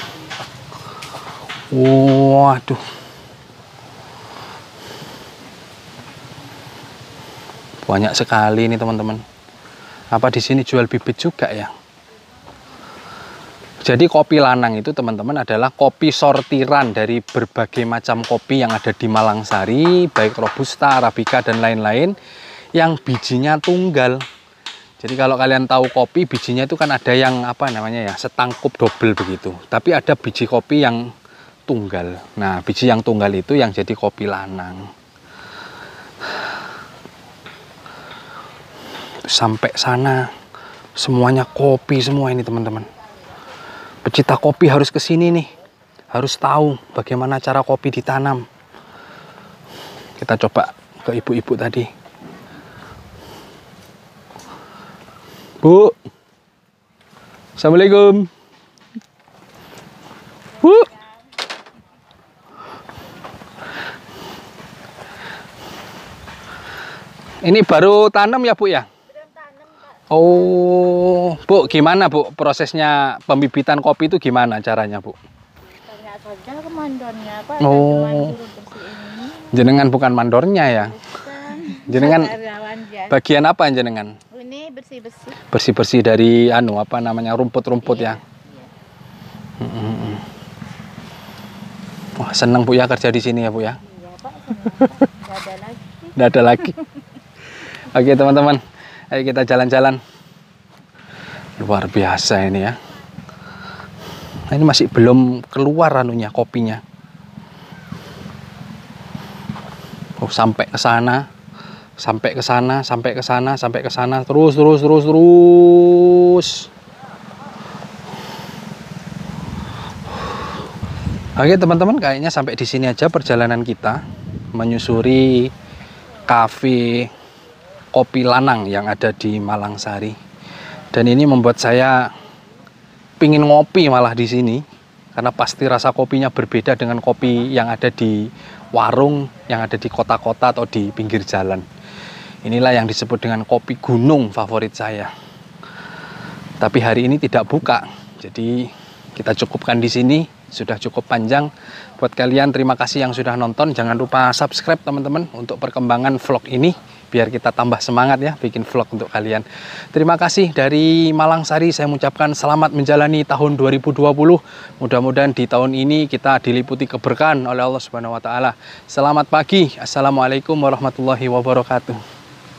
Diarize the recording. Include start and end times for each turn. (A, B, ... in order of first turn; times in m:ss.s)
0:01.7-0:02.8 A
0:07.8-0:09.2 A
0:10.1-0:11.7 A
0:13.8-0:22.2 A
0:22.8-0:24.2 A
0:25.0-0:31.0 A
0:31.7-0:34.9 A
0:39.2-0:40.3 A
0:41.0-0:42.9 A
0:44.0-0:45.5 A
0:46.1-0:48.4 A
0:50.2-0:51.9 A
0:55.6-0:56.0 A
0:57.6-0:58.3 A
1:00.6-1:00.9 A
1:07.4-1:08.9 A
1:09.2-1:09.8 B
1:10.1-1:15.2 A
1:15.8-1:19.5 B
1:17.6-1:18.4 A
1:19.5-1:21.0 A
1:20.8-1:23.1 B
1:21.8-1:22.4 A
1:23.1-1:24.2 A
1:24.3-1:25.4 B
1:25.4-1:28.2 A
1:28.0-1:28.7 B
1:29.6-1:30.2 A
1:32.2-1:33.8 A
1:33.8-1:36.1 B
1:36.2-1:36.8 A
1:37.6-1:40.0 A
1:41.6-1:42.8 A
1:44.5-1:46.8 A
1:50.2-1:51.3 A
1:52.0-1:56.7 A
2:01.4-2:04.0 A
2:04.5-2:05.5 A
2:06.3-2:07.1 A
2:07.9-2:10.2 A
2:10.9-2:12.1 A
2:13.2-2:14.6 A
2:15.2-2:21.6 A
2:22.4-2:25.1 A
2:26.6-2:52.0 A